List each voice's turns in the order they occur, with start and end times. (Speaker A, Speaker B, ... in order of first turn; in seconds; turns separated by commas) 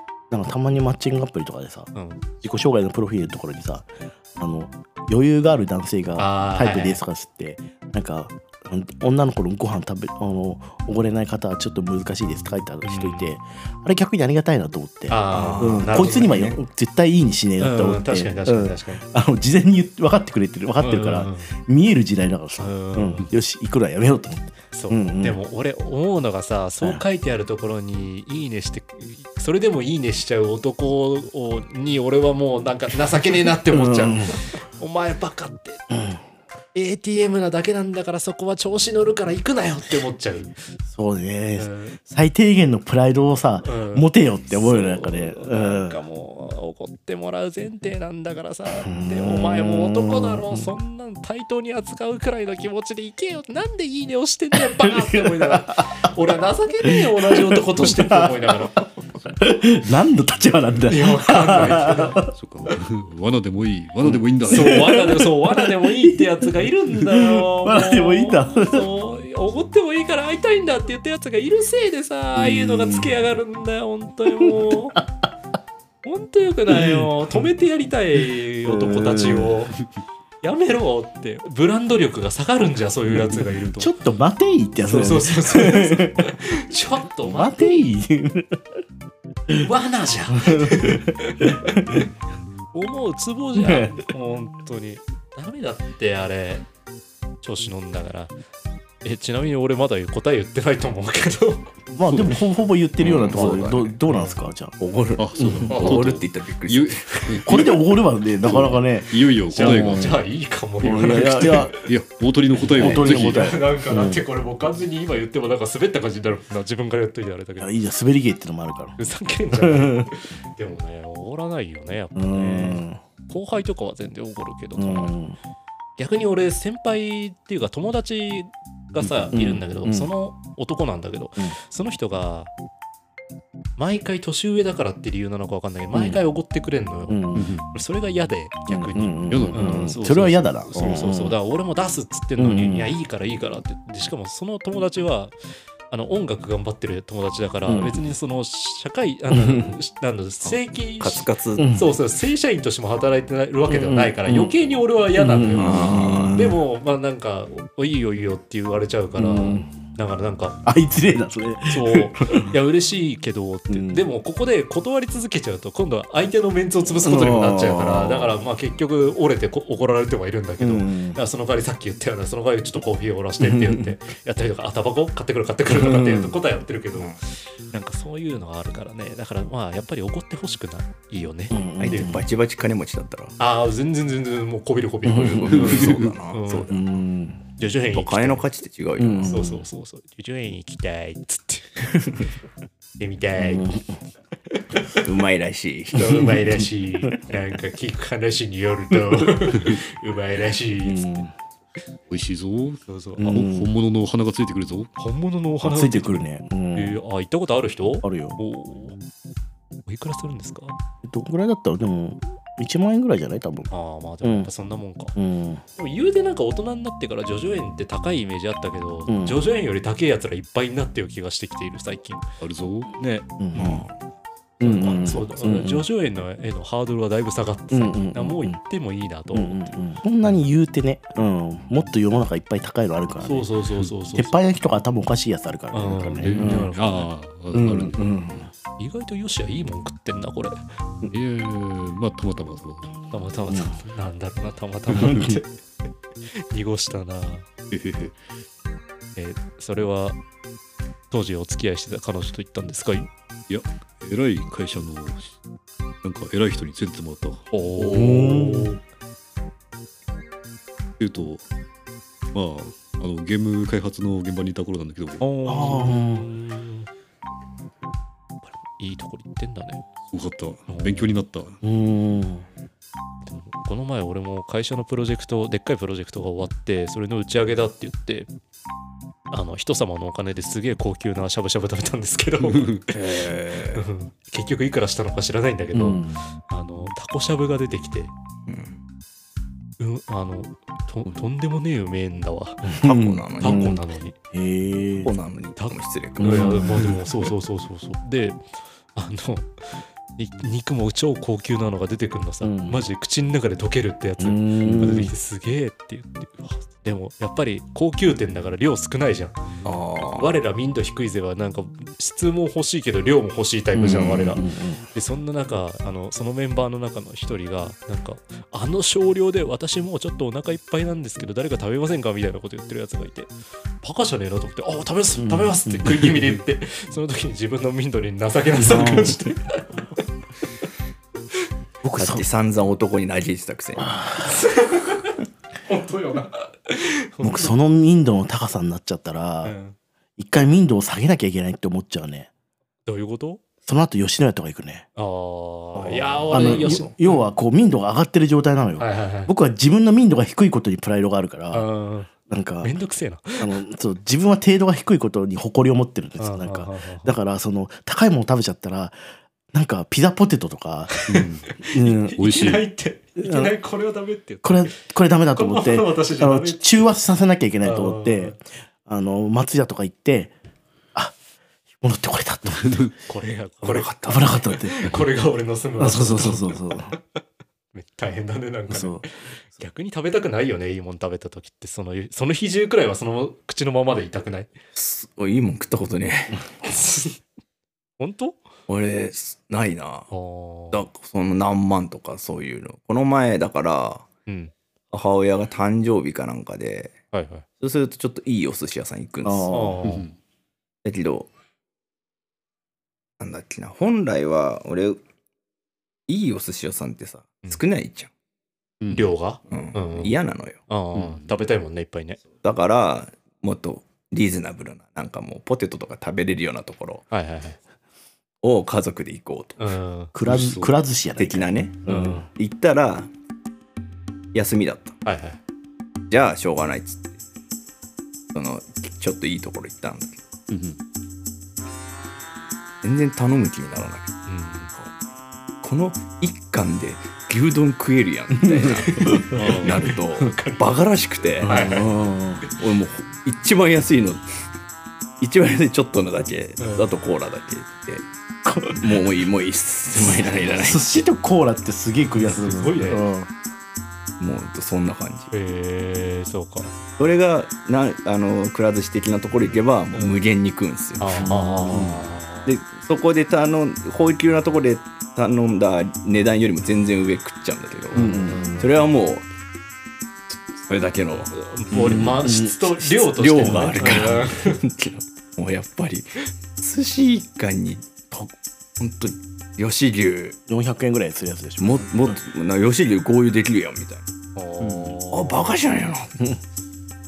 Speaker A: 0.3-25.4, Speaker B: 1.9-2.2, Speaker B: 6.2-7.0, Speaker B: 12.8-13.3, Speaker B: 15.1-16.5, Speaker C: 15.3-16.6, Speaker B: 17.6-19.0, Speaker B: 20.8-21.5, Speaker B: 22.6-23.3, Speaker B: 24.7-35.8, Speaker A: 33.7-34.4, Speaker A: 35.9-36.2, Speaker B: 36.7-40.5, Speaker A: 40.9-46.0, Speaker B: 41.6-42.0, Speaker B: 43.6-58.9, Speaker A: 48.8-50.7, Speaker A: 54.5-56.0, Speaker A: 56.9-58.6, Speaker A: 59.4-62.3, Speaker B: 60.9-62.2, Speaker D: 62.3-65.0, Speaker A: 64.0-68.9, Speaker B: 64.5-75.0, Speaker A: 72.3-73.1, Speaker A: 74.4-75.2, Speaker B: 76.0-79.8, Speaker A: 76.7-77.1, Speaker A: 78.7-79.5, Speaker B: 80.4-84.0, Speaker A: 83.8-86.3, Speaker B: 84.8-87.6, Speaker A: 87.2-88.6, Speaker B: 89.6-92.0, Speaker A: 90.4-92.0, Speaker B: 92.7-96.7, Speaker A: 93.5-94.0, Speaker B: 97.4-98.3, Speaker B: 99.0-101.7, Speaker A: 101.9-104.7, Speaker D: 102.1-102.4, Speaker C: 103.0-103.9, Speaker B: 103.4-104.3, Speaker C: 104.8-107.5, Speaker D: 105.2-107.8, Speaker A: 105.3-105.7, Speaker B: 105.7-106.2, Speaker A: 107.4-110.2, Speaker D: 108.4-110.2, Speaker B: 109.5-111.8, Speaker A: 110.8-111.8, Speaker D: 111.0-113.5, Speaker A: 112.6-114.2, Speaker B: 112.8-117.8, Speaker C: 112.8-113.0, Speaker A: 117.6-119.0, Speaker B: 119.0-125.1, Speaker A: 119.6-120.1, Speaker A: 122.1-123.0, Speaker A: 124.8-125.4, Speaker B: 126.0-132.5, Speaker D: 129.0-129.3, Speaker A: 129.3-130.1, Speaker B: 133.8-145.3, Speaker A: 135.9-136.2, Speaker A: 137.1-137.5, Speaker D: 137.3-137.7, Speaker A: 138.7-141.4, Speaker D: 139.3-140.0, Speaker A: 142.4-142.9, Speaker B: 145.9-160.6, Speaker A: 147.7-148.0, Speaker A: 149.3-149.7, Speaker C: 150.4-151.7, Speaker A: 151.6-151.9, Speaker A: 153.7-154.5, Speaker A: 155.2-156.6, Speaker C: 155.6-156.4, Speaker A: 159.2-159.7, Speaker A: 160.6-162.5, Speaker B: 161.7-177.2, Speaker A: 163.7-164.1, Speaker A: 167.0-168.4, Speaker A: 170.6-171.2, Speaker A: 173.4-173.9, Speaker A: 175.7-176.3, Speaker B: 177.7-182.2, Speaker A: 181.5-182.2, Speaker C: 181.8-183.3, Speaker B: 183.4-186.8, Speaker A: 185.0-185.8, Speaker C: 185.1-186.7, Speaker D: 185.8-186.1, Speaker A: 186.7-187.4, Speaker B: 187.6-188.4, Speaker C: 187.9-189.4, Speaker A: 189.0-189.6, Speaker B: 189.3-191.8, Speaker B: 193.0-193.8, Speaker A: 193.4-194.0, Speaker C: 195.0-196.3, Speaker B: 195.9-201.2, Speaker A: 196.0-197.3, Speaker A: 198.9-199.3, Speaker A: 200.8-201.3, Speaker D: 202.1-204.9, Speaker B: 202.8-203.3, Speaker A: 203.2-203.7, Speaker B: 205.0-206.2, Speaker A: 205.6-207.0, Speaker B: 206.7-209.0, Speaker A: 208.0-208.4, Speaker B: 209.8-210.8, Speaker A: 211.0-213.7, Speaker B: 213.7-215.1, Speaker A: 214.2-214.5, Speaker A: 215.2-215.6, Speaker B: 215.8-222.2, Speaker A: 219.1-219.4, Speaker D: 222.4-222.9, Speaker B: 222.9-223.8, Speaker A: 223.4-223.8, Speaker C: 223.6-223.9, Speaker A: 224.6-225.8, Speaker B: 224.6-229.8, Speaker A: 227.7-228.6, Speaker A: 229.3-233.5, Speaker B: 233.2-234.4, Speaker A: 234.2-236.7, Speaker B: 235.7-237.1, Speaker D: 236.2-238.0, Speaker A: 237.5-238.5, Speaker B: 238.8-240.6, Speaker D: 241.1-243.0, Speaker B: 243.1-245.5, Speaker A: 243.5-243.7, Speaker A: 244.9-245.4, Speaker B: 246.3-247.5, Speaker D: 247.7-248.2, Speaker B: 249.2-250.2, Speaker B: 251.1-253.1, Speaker D: 253.5-255.3, Speaker D: 256.0-258.3, Speaker B: 257.5-258.8, Speaker A: 257.9-258.7, Speaker D: 261.0-261.4, Speaker D: 262.3-265.2, Speaker B: 265.2-266.9, Speaker A: 265.5-266.3, Speaker B: 268.6-269.8, Speaker D: 270.1-271.6, Speaker B: 270.7-271.1, Speaker A: 271.6-272.4, Speaker B: 273.2-278.3, Speaker B: 279.3-282.8, Speaker D: 282.5-282.8, Speaker C: 282.9-283.9, Speaker B: 283.7-288.1, Speaker A: 285.7-286.2, Speaker C: 288.5-288.8, Speaker B: 289.8-292.7, Speaker A: 292.6-293.8, Speaker C: 292.8-293.7, Speaker B: 293.4-294.1, Speaker A: 294.3-295.1, Speaker C: 295.0-297.0, Speaker B: 295.6-309.4, Speaker A: 296.2-297.0, Speaker A: 302.4-302.8, Speaker A: 304.2-305.1, Speaker C: 309.6-310.4, Speaker B: 310.1-329.8, Speaker A: 313.7-314.8, Speaker A: 325.1-325.6, Speaker A: 328.6-329.3, Speaker A: 331.8-332.2, Speaker C: 331.9-334.0, Speaker A: 333.8-334.4, Speaker B: 334.2-335.1, Speaker B: 335.7-337.5, Speaker A: 337.2-339.5, Speaker B: 339.4-339.8, Speaker A: 340.2-342.3, Speaker B: 342.9-343.4, Speaker A: 343.6-344.9, Speaker B: 344.9-347.2, Speaker A: 345.8-351.6, Speaker B: 348.8-349.3, Speaker B: 351.5-352.1, Speaker A: 352.3-352.7, Speaker B: 352.6-353.5, Speaker A: 353.4-359.0, Speaker B: 356.2-357.1, Speaker A: 359.5-361.0, Speaker B: 360.9-364.8, Speaker D: 361.1-361.5, Speaker A: 361.6-362.2, Speaker D: 362.2-362.6, Speaker A: 363.2-363.5, Speaker A: 364.4-370.3, Speaker B: 365.3-366.9, Speaker B: 367.6-368.4, Speaker A: 371.8-372.9, Speaker D: 372.5-372.9, Speaker B: 373.0-376.9, Speaker C: 373.6-374.3, Speaker A: 374.0-374.9, Speaker A: 375.8-376.9, Speaker B: 377.7-384.5, Speaker A: 378.7-379.1, Speaker C: 384.7-386.4, Speaker B: 386.6-387.2, Speaker B: 388.0-388.5, Speaker C: 388.7-390.1, Speaker B: 390.1-390.8, Speaker C: 390.7-394.0, Speaker B: 394.3-394.5, Speaker C: 394.9-396.9, Speaker B: 397.1-397.4, Speaker C: 397.6-399.5, Speaker A: 399.2-399.9, Speaker B: 399.5-400.1, Speaker D: 399.8-400.1, Speaker C: 400.8-401.3, Speaker C: 403.2-405.0, Speaker C: 406.1-408.1, Speaker D: 408.8-409.1, Speaker B: 408.9-410.1, Speaker C: 409.5-410.6, Speaker B: 410.7-412.2, Speaker D: 410.9-411.3, Speaker C: 412.4-417.0, Speaker B: 417.1-417.6, Speaker C: 418.4-419.6, Speaker B: 419.6-420.1, Speaker A: 420.1-422.2, Speaker D: 420.2-420.7, Speaker C: 421.2-423.1, Speaker B: 421.9-422.2, Speaker C: 424.3-424.9, Speaker B: 425.0-425.4, Speaker C: 426.1-427.1, Speaker C: 428.3-430.2, Speaker D: 430.5-430.8, Speaker C: 432.8-434.1, Speaker B: 434.2-434.7, Speaker C: 435.6-441.5, Speaker A: 438.3-440.3, Speaker B: 438.6-439.2, Speaker D: 439.3-439.8, Speaker A: 441.4-442.4, Speaker B: 441.4-441.9, Speaker C: 442.6-444.2, Speaker C: 445.2-448.1, Speaker B: 446.6-446.9, Speaker A: 448.4-448.8, Speaker C: 448.8-451.1, Speaker A: 450.6-453.3, Speaker B: 452.1-453.0, Speaker C: 454.2-455.3, Speaker B: 455.3-456.7, Speaker C: 457.0-461.4, Speaker B: 461.0-462.5, Speaker A: 461.2-462.0, Speaker C: 462.4-469.2, Speaker B: 467.9-468.7, Speaker A: 467.9-468.7, Speaker C: 470.6-472.1, Speaker B: 471.3-474.6, Speaker A: 471.7-474.1, Speaker C: 473.1-480.4, Speaker A: 480.5-482.1, Speaker C: 481.6-484.1, Speaker B: 484.3-485.5, Speaker D: 484.6-485.0, Speaker C: 485.1-486.2